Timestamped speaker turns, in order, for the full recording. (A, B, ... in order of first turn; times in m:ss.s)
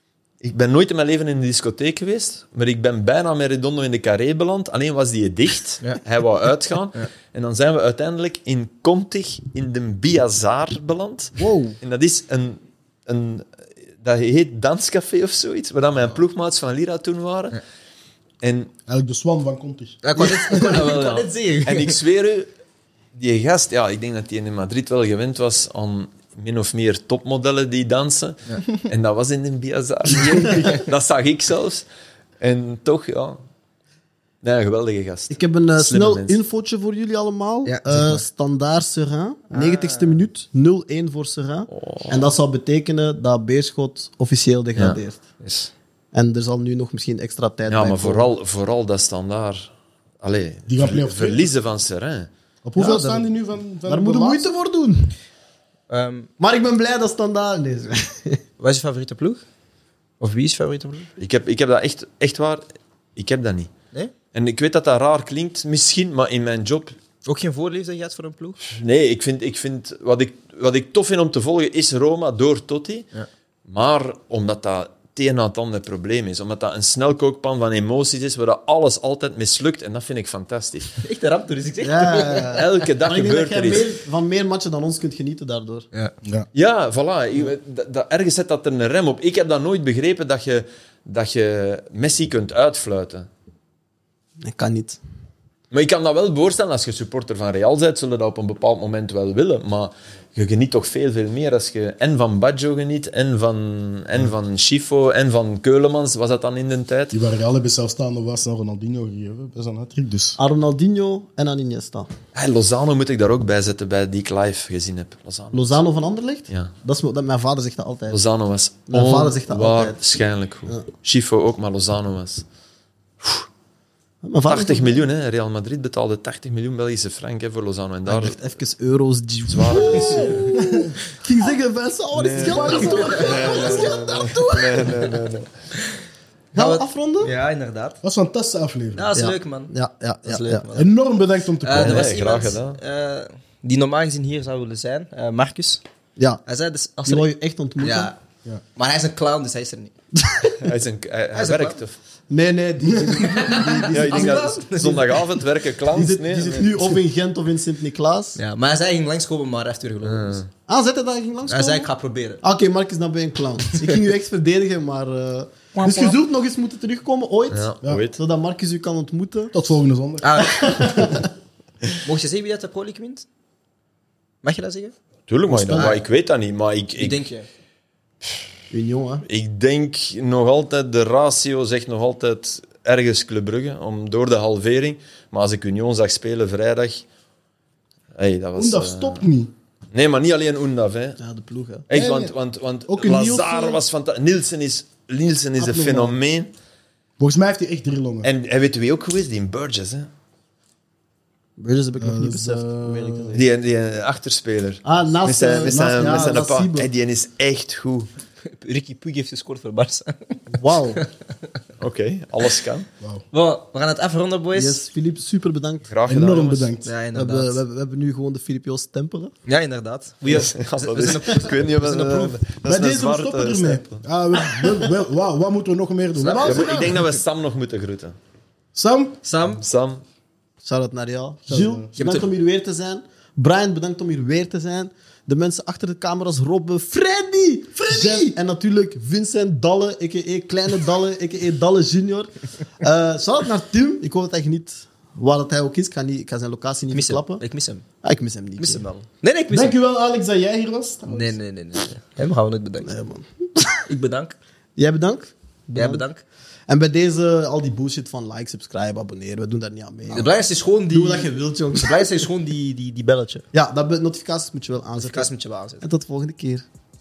0:00.4-0:13.5 A
0:14.0-0:17.6 A
0:18.4-0:18.7 A
0:18.9-0:20.8 B
0:20.0-0:22.0 C
0:20.2-0:22.5 A
0:23.1-0:31.8 A
0:30.3-0:30.7 B
0:30.5-0:30.7 C
0:32.4-0:33.4 A
0:34.4-0:36.4 A
0:35.3-0:45.2 D
0:37.6-0:38.2 C
0:39.5-0:40.2 C
0:41.7-0:42.3 A
0:45.4-0:45.7 C
0:46.1-0:48.3 D
0:47.7-0:52.3 A
0:50.7-0:51.5 B
0:52.6-0:54.5 B
0:52.8-0:53.3 D
0:53.8-0:55.1 D
0:55.9-0:56.3 C
0:56.4-0:58.4 D
0:58.6-0:59.4 C
1:00.2-1:01.1 C
1:01.2-1:02.6 A
1:03.2-1:03.7 A
1:04.3-1:06.9 A
1:07.2-1:08.6 C
1:08.7-1:13.1 A
1:13.7-1:20.9 A
1:21.0-1:22.8 C
1:21.8-1:25.8 D
1:22.5-1:23.9 A
1:26.5-1:33.3 A
1:34.4-1:35.0 D
1:35.7-1:47.2 A
1:47.1-1:50.4 B
1:50.4-1:52.1 D
1:52.3-1:55.8 A
1:55.5-1:58.2 D
1:58.1-2:02.4 A
1:58.9-2:00.0 D
2:04.2-2:05.0 D
2:04.5-2:08.4 A
2:08.1-2:14.9 D
2:09.5-2:10.4 A
2:09.9-2:11.0 B
2:12.1-2:15.5 A
2:12.3-2:13.1 B
2:12.7-2:14.0 C
2:16.5-2:17.3 D
2:16.6-2:18.0 C
2:18.0-2:19.1 B
2:18.9-2:19.7 C
2:19.1-2:20.7 D
2:20.2-2:20.9 C
2:20.7-2:22.2 B
2:21.6-2:25.8 C
2:21.7-2:22.8 A
2:26.4-2:27.3 C
2:27.0-2:28.1 D
2:27.8-2:28.2 C
2:28.8-2:29.9 C
2:30.2-2:30.6 D
2:30.6-2:32.0 A
2:31.3-2:31.8 C
2:32.3-2:34.6 D
2:32.8-2:33.7 B
2:33.2-2:35.3 C
2:33.8-2:36.7 A
2:35.9-2:38.4 D
2:38.4-2:40.4 C
2:40.0-2:40.5 A
2:40.7-2:41.9 D
2:41.5-2:42.4 C
2:42.4-2:49.6 D
2:45.8-2:46.2 C
2:47.5-2:48.2 A
2:49.5-2:50.4 B
2:50.2-2:51.1 C
2:50.4-2:51.3 D
2:52.0-2:53.3 C
2:54.4-2:54.9 C
2:55.3-2:57.2 A
2:55.5-2:56.0 D
2:55.8-2:56.0 C
2:57.0-2:57.5 C
2:58.7-2:59.2 D
2:59.3-3:07.0 A
3:08.2-3:09.2 A
3:08.6-3:09.5 B
3:09.9-3:11.2 A
3:11.2-3:11.8 D
3:11.9-3:16.5 A
3:11.9-3:12.3 B
3:12.9-3:13.8 B
3:15.6-3:16.2 B
3:17.2-3:18.3 B
3:18.2-3:20.1 A
3:21.6-3:23.5 D
3:22.0-3:23.4 B
3:23.3-3:28.1 A
3:24.8-3:26.9 D
3:25.7-3:26.2 B
3:28.4-3:30.4 C
3:30.5-3:31.0 D
3:31.8-3:32.9 A
3:33.3-3:34.8 C
3:34.5-3:35.8 D
3:35.9-3:36.7 A
3:36.1-3:36.9 B
3:36.8-3:37.6 C
3:37.1-3:39.3 D
3:39.4-3:42.4 C
3:40.3-3:44.0 A
3:42.6-3:47.0 B
3:44.4-3:44.9 D
3:46.2-3:47.0 C
3:46.3-3:48.1 A
3:48.7-3:49.2 B
3:49.2-3:49.6 C
3:49.5-3:50.0 A
3:50.6-4:07.4 D
3:51.5-3:51.9 B
3:57.8-3:58.3 B
4:06.9-4:07.8 C
4:08.0-4:08.8 D
4:08.6-4:09.8 C
4:09.5-4:11.4 B
4:11.1-4:12.9 C
4:12.8-4:13.7 D
4:13.9-4:14.4 C
4:14.8-4:16.0 D
4:15.7-4:16.2 C
4:16.7-4:20.3 D
4:20.1-4:23.4 C
4:20.9-4:22.2 D
4:23.5-4:26.6 D
4:25.0-4:25.8 C